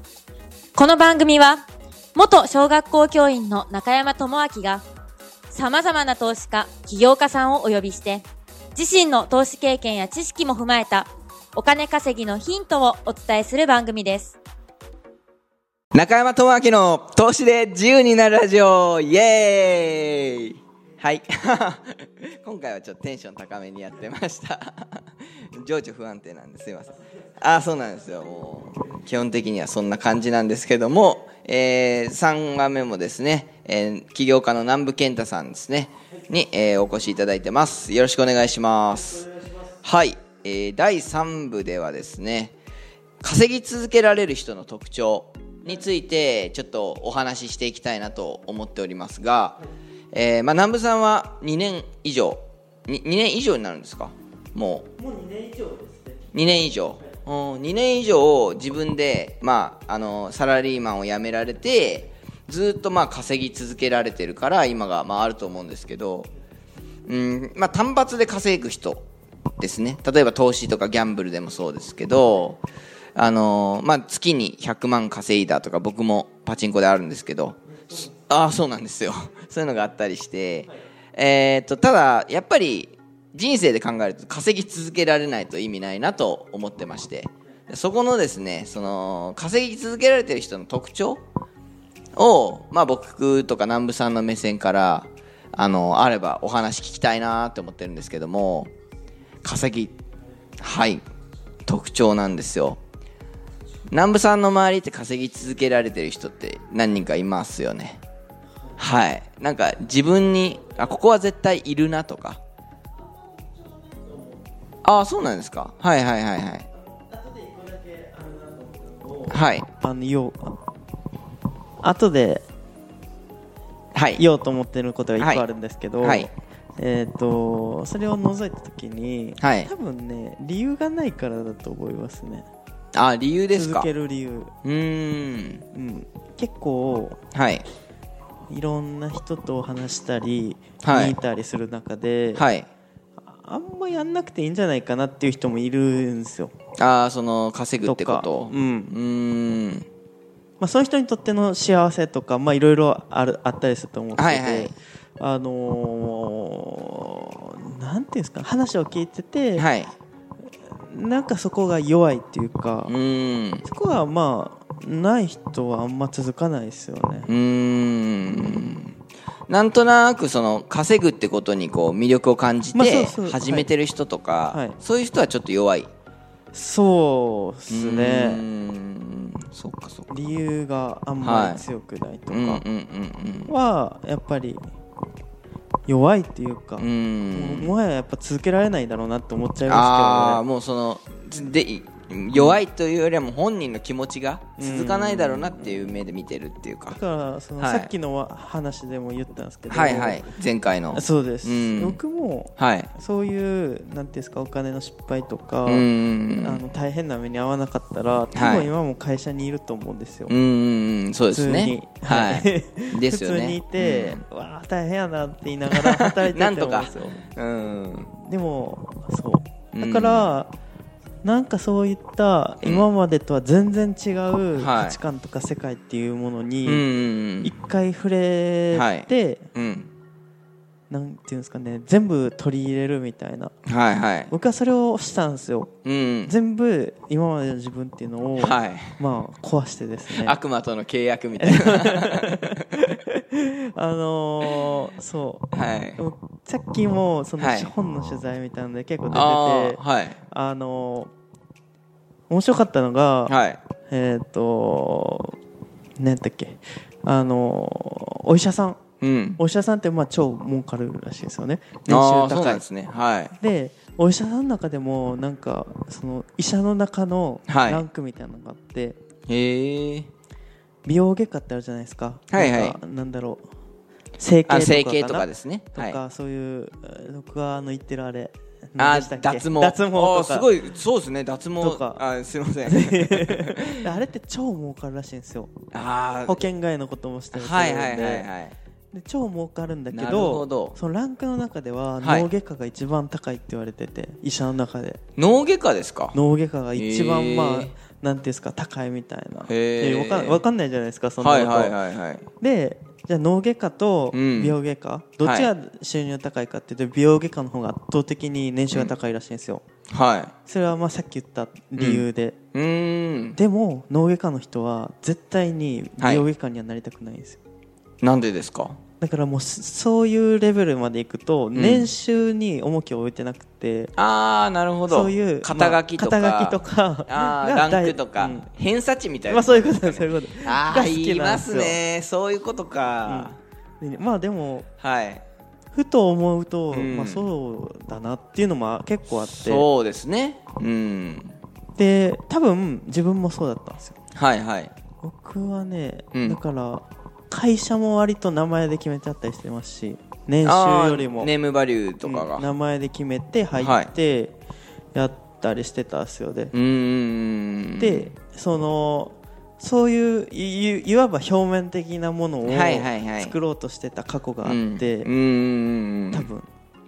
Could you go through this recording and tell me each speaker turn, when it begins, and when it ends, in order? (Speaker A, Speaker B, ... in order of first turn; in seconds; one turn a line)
Speaker A: 0.8-4.8
Speaker A: 5.5-14.4
Speaker B: 15.9-39.3
Speaker B: 39.8-42.5
Speaker B: 43.2-54.9
Speaker C: 55.0-56.3
Speaker B: 56.3-66.3
Speaker B: 67.1-69.1
Speaker B: 69.6-72.6
Speaker B: 73.2-91.2
Speaker B: 92.2-98.7
Speaker B: 99.4-99.9
Speaker B: 100.6-101.0
Speaker B: 101.7-102.8
Speaker B: 103.9-108.0
Speaker B: 108.8-112.4
Speaker C: 113.0-114.5
Speaker B: 114.8-116.7
Speaker C: 116.7-120.6
Speaker B: 119.3-119.7
Speaker C: 121.8-122.5
Speaker B: 123.9-124.2
Speaker C: 124.2-132.5
Speaker B: 125.2-125.4
Speaker B: 126.0-126.3
Speaker B: 129.4-129.7
Speaker B: 132.9-133.9
Speaker C: 133.5-134.5
Speaker B: 134.6-135.7
Speaker C: 135.7-137.2
Speaker B: 137.3-137.7
Speaker C: 138.5-142.5
Speaker B: 140.8-141.2
Speaker B: 142.3-142.7
Speaker C: 143.2-146.5
Speaker B: 146.8-149.9
Speaker C: 147.8-149.0
Speaker C: 150.6-159.7
Speaker B: 154.2-154.8
Speaker B: 159.6-159.9
Speaker C: 160.8-162.9
Speaker B: 162.9-163.6
Speaker C: 163.6-167.3
Speaker B: 167.3-168.9
Speaker B: 169.5-175.9
Speaker C: 172.7-173.7
Speaker C: 174.5-174.8
Speaker C: 176.5-178.4
Speaker B: 177.7-180.1
Speaker C: 180.1-182.6
Speaker B: 181.2-181.6
Speaker B: 182.3-183.5
Speaker C: 183.5-184.7
Speaker C: 185.9-190.4
Speaker B: 186.8-187.8
Speaker B: 189.7-197.0
Speaker C: 192.3-192.6
Speaker C: 194.6-196.0
Speaker C: 196.9-200.3
Speaker B: 197.6-197.9
Speaker B: 199.7-202.0
Speaker C: 200.9-210.3
Speaker B: 202.6-202.9
Speaker B: 205.7-206.6
Speaker B: 208.3-208.7
Speaker B: 210.3-214.2
Speaker C: 211.3-217.3
Speaker B: 215.7-218.1
Speaker C: 218.1-220.5
Speaker B: 219.7-220.3
Speaker C: 221.2-226.8
Speaker B: 222.6-222.9
Speaker B: 224.5-225.0
Speaker B: 226.6-227.5
Speaker C: 227.4-229.5
Speaker B: 228.7-229.9
Speaker C: 230.9-233.6
Speaker B: 233.7-234.3
Speaker C: 234.3-235.7
Speaker B: 235.8-236.3
Speaker C: 236.2-240.4
Speaker B: 238.4-239.0
Speaker B: 240.1-242.7
Speaker C: 241.4-251.1
Speaker B: 245.5-246.0
Speaker B: 247.4-247.7
Speaker B: 249.1-250.2
Speaker C: 252.3-253.4
Speaker B: 253.3-253.6
Speaker C: 253.9-255.4
Speaker C: 256.0-258.8
Speaker B: 259.0-259.4
Speaker C: 259.4-262.6
Speaker B: 261.9-263.4
Speaker C: 263.4-269.0
Speaker B: 267.5-267.9
Speaker B: 269.3-270.1
Speaker C: 270.9-273.4
Speaker B: 272.3-272.8
Speaker C: 274.2-280.5
Speaker B: 274.5-276.0
Speaker B: 278.8-283.9
Speaker C: 281.6-282.0
Speaker C: 282.6-285.6
Speaker B: 285.7-286.4
Speaker C: 286.2-288.3
Speaker B: 287.3-288.6
Speaker C: 288.9-295.0
Speaker B: 289.9-290.8
Speaker B: 292.0-292.3
Speaker B: 295.2-296.2
Speaker C: 296.1-301.8
Speaker B: 296.8-297.7
Speaker B: 299.4-300.4
Speaker B: 301.2-302.3
Speaker C: 302.4-309.6
Speaker B: 304.1-304.6
Speaker B: 305.2-305.5
Speaker B: 309.9-310.3
Speaker C: 310.4-312.4
Speaker B: 311.8-313.4
Speaker C: 313.4-317.4
Speaker B: 316.0-316.3
Speaker B: 318.0-318.8
Speaker C: 319.0-323.9
Speaker B: 321.5-321.9
Speaker B: 324.0-333.4
Speaker C: 324.9-328.5
Speaker C: 329.3-331.8
Speaker C: 333.1-334.7
Speaker B: 334.8-335.2
Speaker C: 335.7-339.7
Speaker B: 336.7-337.3
Speaker B: 339.3-341.4
Speaker C: 341.8-344.0
Speaker B: 344.1-344.7
Speaker C: 345.0-351.3
Speaker B: 346.1-346.4
Speaker B: 350.4-352.5
Speaker C: 352.0-354.4
Speaker B: 353.6-353.9
Speaker C: 354.9-356.5
Speaker B: 356.5-358.1
Speaker C: 357.8-365.1
Speaker B: 362.4-363.4
Speaker B: 364.4-366.3
Speaker C: 366.1-366.5